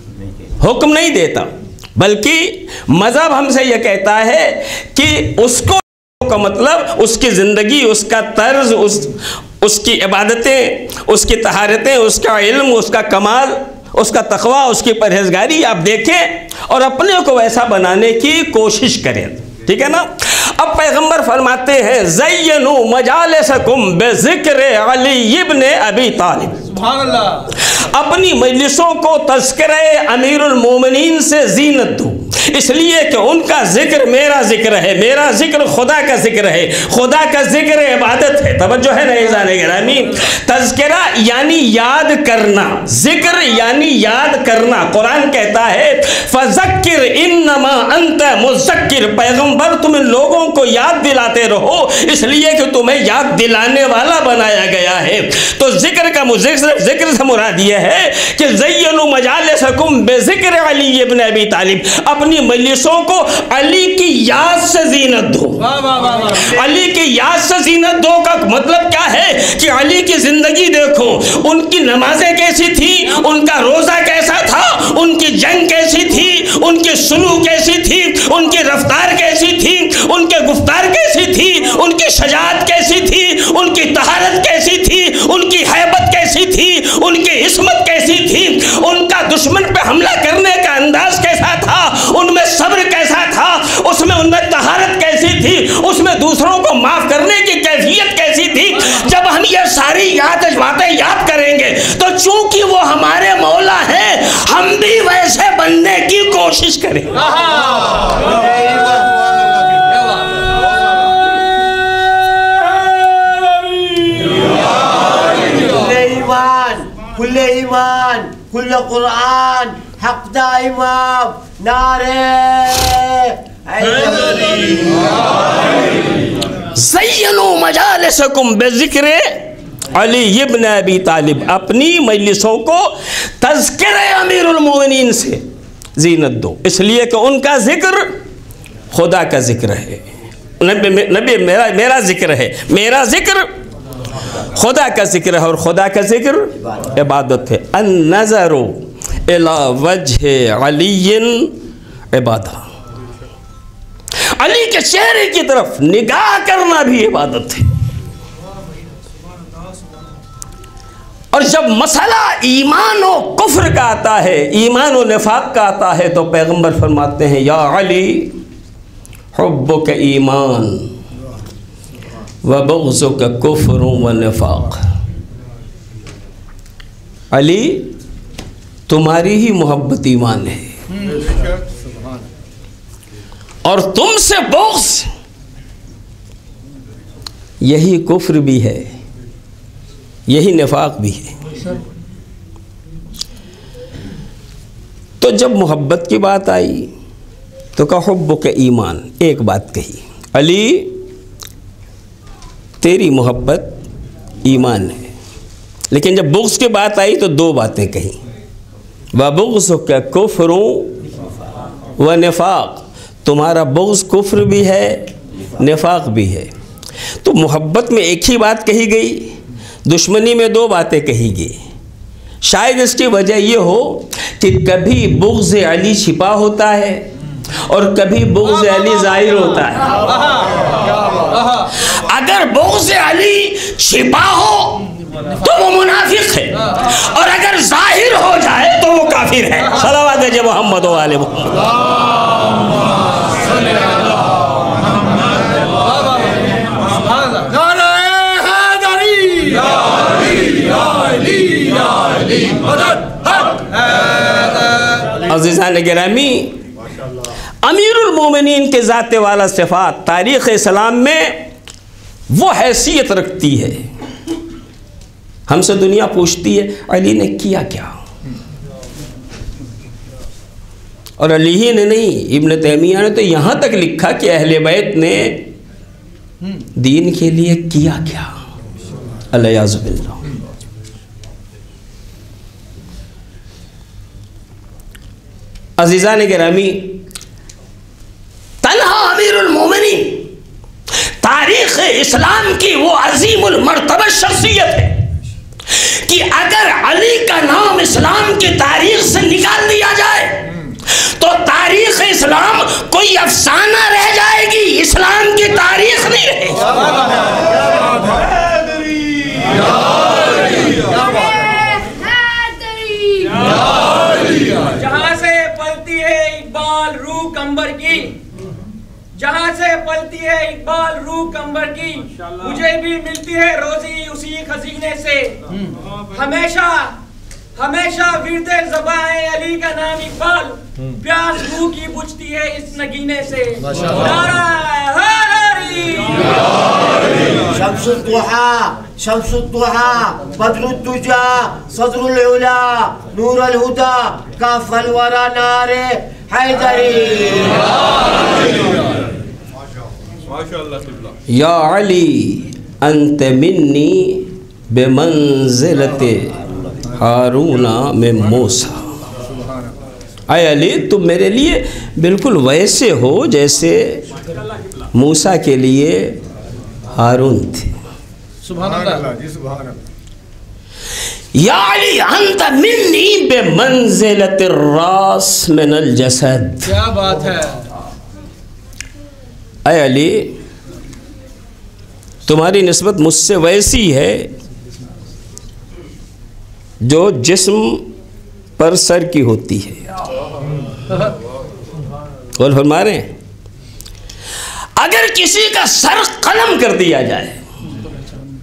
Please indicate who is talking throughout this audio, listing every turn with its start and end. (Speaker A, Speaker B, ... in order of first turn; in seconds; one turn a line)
Speaker A: 0.6-26.7
Speaker B: 26.8-27.4
Speaker A: 27.6-65.6
Speaker B: 65.7-66.2
Speaker A: 66.2-107.2
Speaker C: 107.9-109.2
Speaker C: 113.5-114.6
Speaker C: 115.3-125.3
Speaker A: 126.7-135.4
Speaker A: 136.0-138.2
Speaker A: 138.9-140.0
Speaker A: 140.6-143.5
Speaker A: 144.5-151.6
Speaker A: 152.1-152.6
Speaker A: 154.3-157.7
Speaker A: 161.3-168.3
Speaker A: 169.3-170.9
Speaker A: 172.4-174.8
Speaker A: 177.3-177.9
Speaker A: 178.9-180.7
Speaker A: 183.6-185.1
Speaker A: 187.6-188.9
Speaker A: 190.3-191.3
Speaker A: 195.2-196.9
Speaker A: 197.8-201.0
Speaker A: 202.8-203.8
Speaker A: 204.4-205.1
Speaker A: 205.9-208.2
Speaker A: 209.1-211.0
Speaker A: 212.0-216.5
Speaker A: 217.2-221.6
Speaker A: 222.4-227.1
Speaker A: 227.7-230.0
Speaker A: 231.7-234.8
Speaker A: 235.4-241.7
Speaker B: 248.2-249.6
Speaker A: 255.2-256.6
Speaker A: 257.6-261.5
Speaker A: 262.3-263.9
Speaker A: 265.5-267.9
Speaker A: 271.2-275.5
Speaker A: 276.8-278.3
Speaker A: 279.3-280.3
Speaker A: 285.8-287.0
Speaker A: 288.6-290.3
Speaker A: 291.2-295.0
Speaker A: 295.7-306.7
Speaker D: 310.7-313.6
Speaker D: 314.2-318.1
Speaker D: 319.1-325.4
Speaker D: 326.1-326.9
Speaker D: 327.6-336.6
Speaker C: 337.5-347.7
Speaker A: 351.3-356.3
Speaker A: 356.9-358.8
Speaker A: 360.3-364.0
Speaker A: 364.9-366.2
Speaker A: 366.9-367.7
Speaker B: 368.5-369.0
Speaker A: 371.3-376.7
Speaker B: 376.7-377.7
Speaker A: 379.6-380.4
Speaker A: 382.2-384.3
Speaker A: 386.8-387.9
Speaker A: 388.6-389.9
Speaker A: 392.4-393.1
Speaker A: 394.8-397.4